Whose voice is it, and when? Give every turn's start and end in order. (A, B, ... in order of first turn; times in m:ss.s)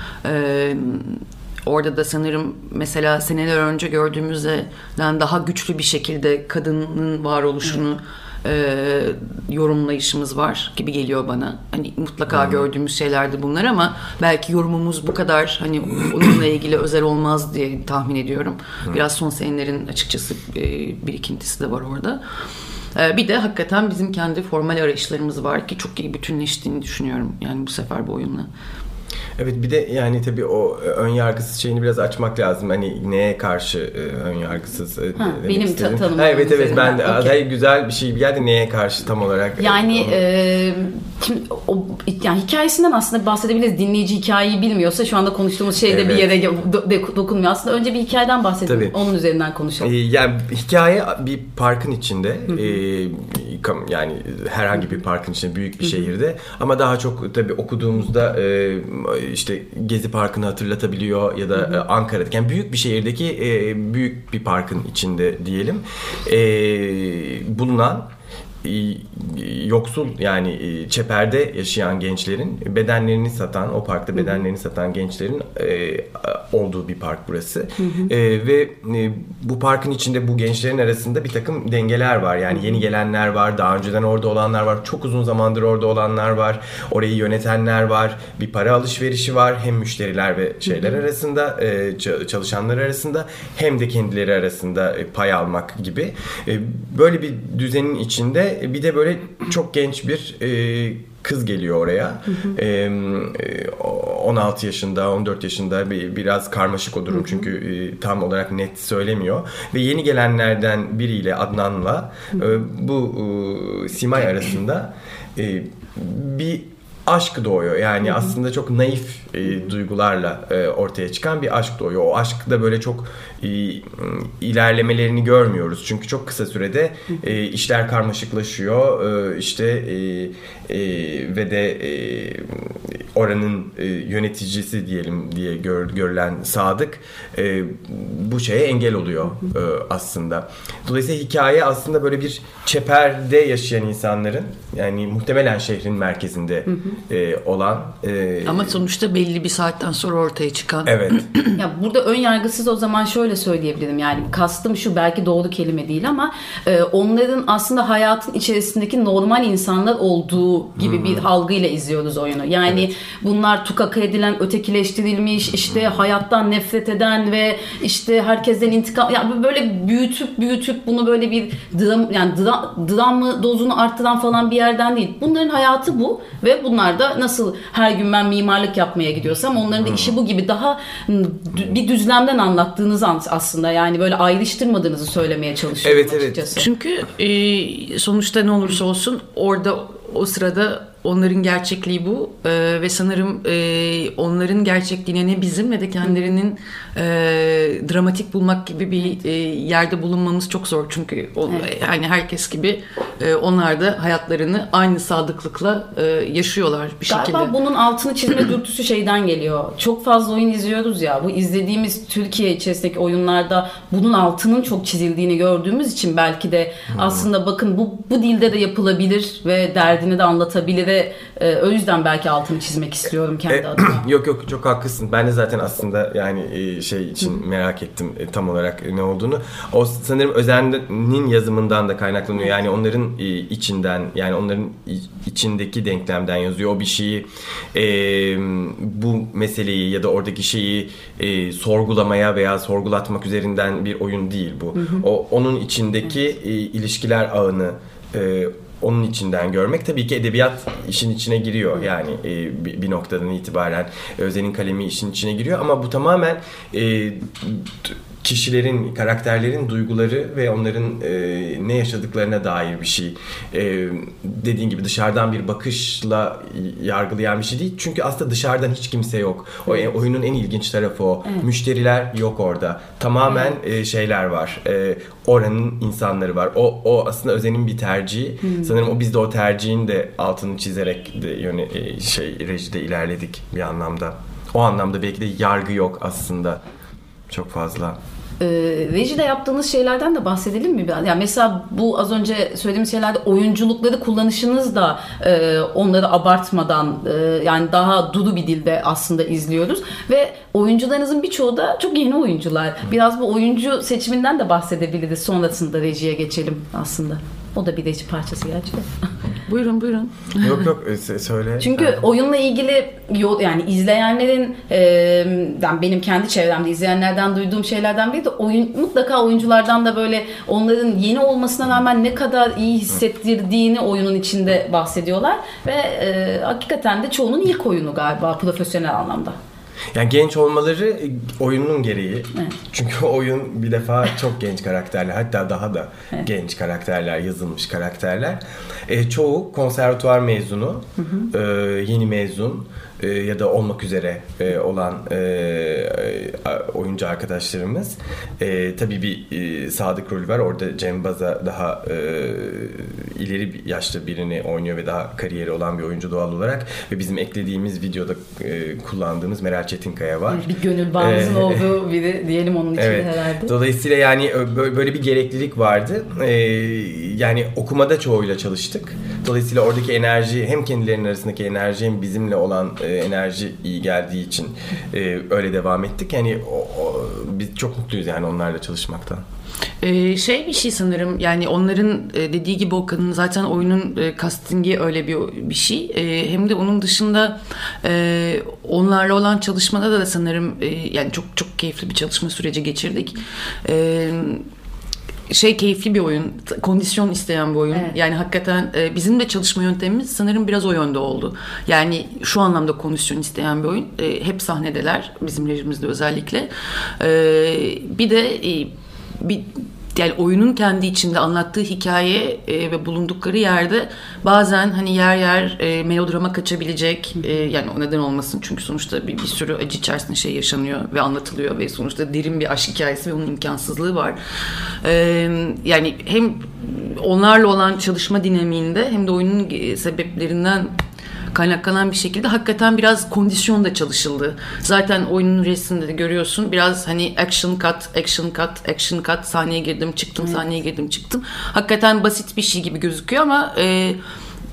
0:00.2-0:22.2 A
0:23.0-0:28.5 A
0:29.4-0:40.2 B
0:35.2-0:37.4 C
0:39.6-0:49.9 C
0:45.9-0:46.3 B
0:48.7-0:49.0 B
0:49.8-1:08.1 B
1:08.6-2:28.8 B
1:17.8-1:18.1 C
2:28.4-2:31.6 A
2:30.8-2:31.3 B
2:31.6-3:06.6 C
2:40.8-2:41.2 B
2:59.8-3:00.1 B
3:05.8-3:06.5 B
3:06.6-3:27.5 A
3:27.1-3:44.1 C
3:36.9-3:37.2 B
3:43.5-4:46.6 B
4:04.8-4:05.0 C
4:47.3-4:48.0 B
4:48.4-5:08.9 C
5:09.5-5:10.6 A
5:10.4-5:12.0 B
5:11.6-5:29.4 C
5:29.9-6:00.4 B
5:41.0-5:41.3 C
6:00.3-6:03.5 C
6:01.0-6:01.7 B
6:02.8-6:19.2 B
6:19.8-6:34.5 A
6:35.3-7:04.2 A
7:04.8-7:10.7 A
7:11.3-7:24.0 A